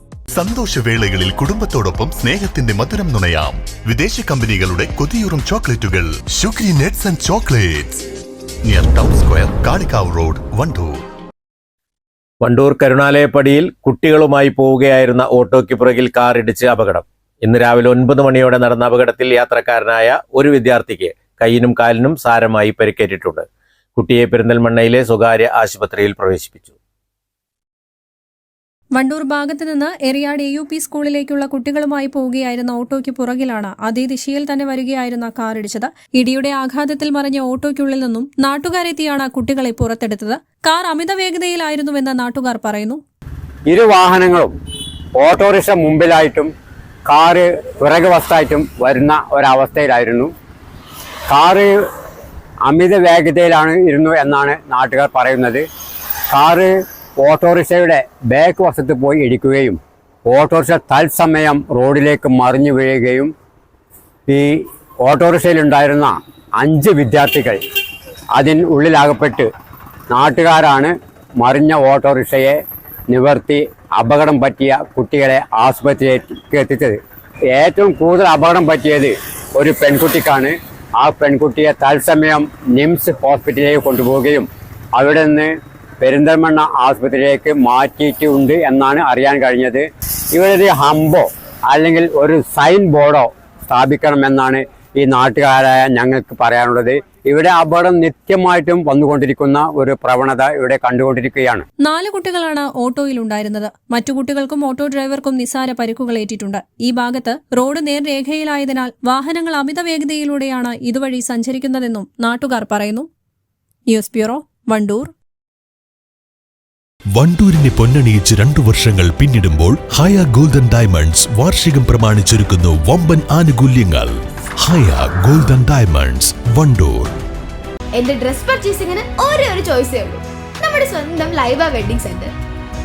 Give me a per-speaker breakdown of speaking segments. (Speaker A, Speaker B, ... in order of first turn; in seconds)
Speaker A: 0.3-8.0, 8.6-11.0
Speaker B: 12.4-23.4, 23.9-26.7
Speaker C: 28.9-43.0, 101.8-113.1, 113.9-115.1
Speaker D: 43.7-44.5, 45.1-46.5, 47.1-50.3, 51.3-51.7, 52.6-55.6, 56.3-63.3, 64.3-67.6, 68.3-69.5, 70.1-72.6, 73.1-77.0, 77.5-101.6
Speaker E: 117.1-127.1
Speaker F: 127.9-132.3